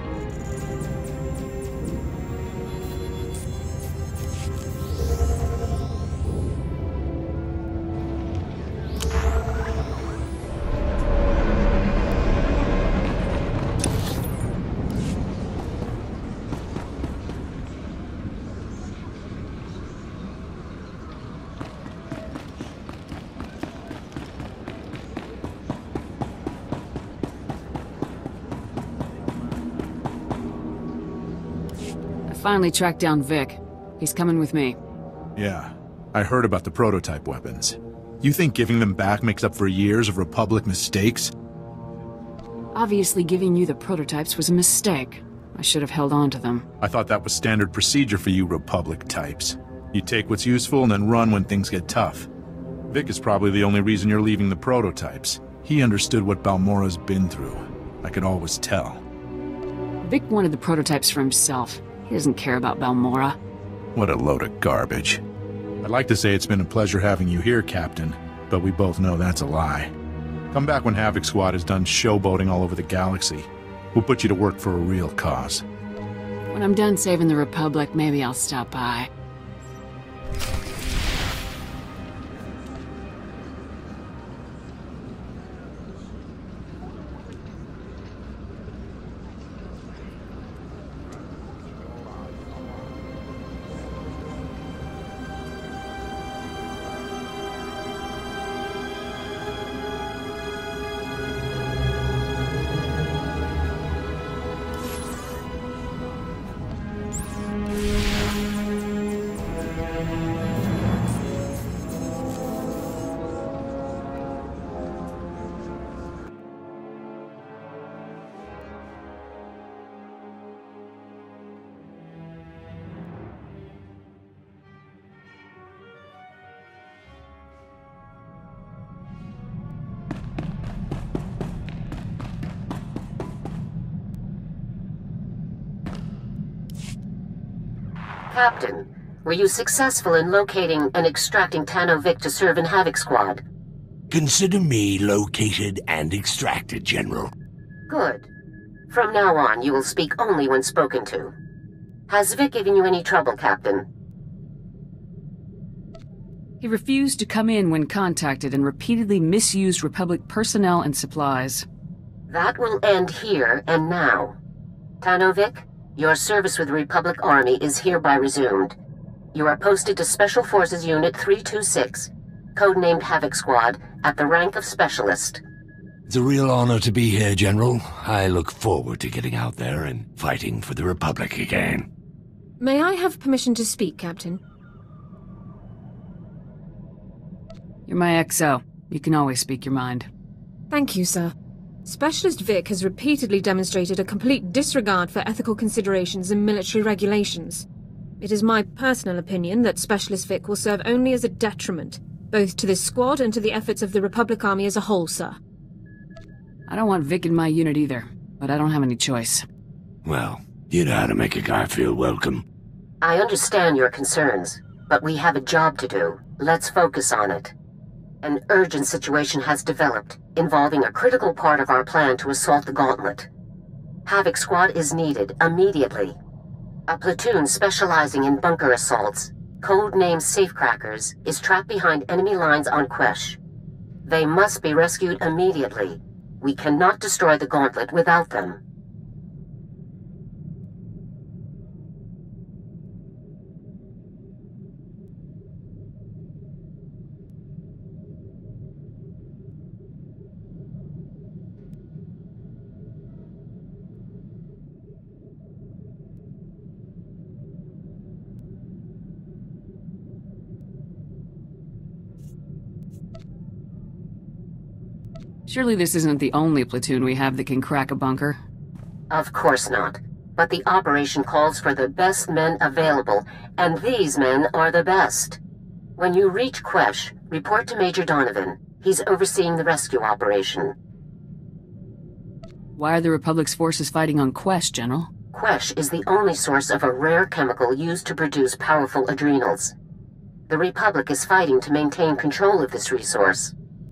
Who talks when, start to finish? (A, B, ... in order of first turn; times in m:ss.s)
0:32.3-0:34.8 A
0:35.4-0:41.3 B
0:42.7-0:46.7 A
0:46.8-0:52.3 B
0:52.9-0:59.0 B
1:00.0-1:03.4 A
1:04.0-1:05.2 B
1:05.8-1:09.9 B
1:10.5-1:15.6 B
1:16.5-1:19.1 A
2:18.3-2:23.4 C
2:24.1-2:27.3 D
2:27.9-2:28.3 C
2:28.9-2:31.3 C
2:32.1-2:33.9 C
2:36.6-2:41.7 A
2:42.3-2:44.4 C
2:45.0-2:48.8 C
2:49.3-2:55.4 C
2:56.1-3:01.9 D
3:02.6-3:04.4 E
3:07.9-3:10.1 A
3:10.7-3:11.3 E
3:11.8-3:17.7 E
3:18.2-3:25.4 E
3:26.7-3:29.5 A
3:30.0-3:32.4 D
3:33.0-3:37.5 C
3:38.2-3:43.3 C
3:44.0-3:46.2 C
3:46.9-3:53.4 C
3:54.1-3:58.6 C
4:25.5-4:28.4 A
4:29.1-4:35.4 C
4:36.0-4:40.7 C
4:42.8-4:45.1 A
4:45.3-4:49.7 C
4:50.5-4:53.5 C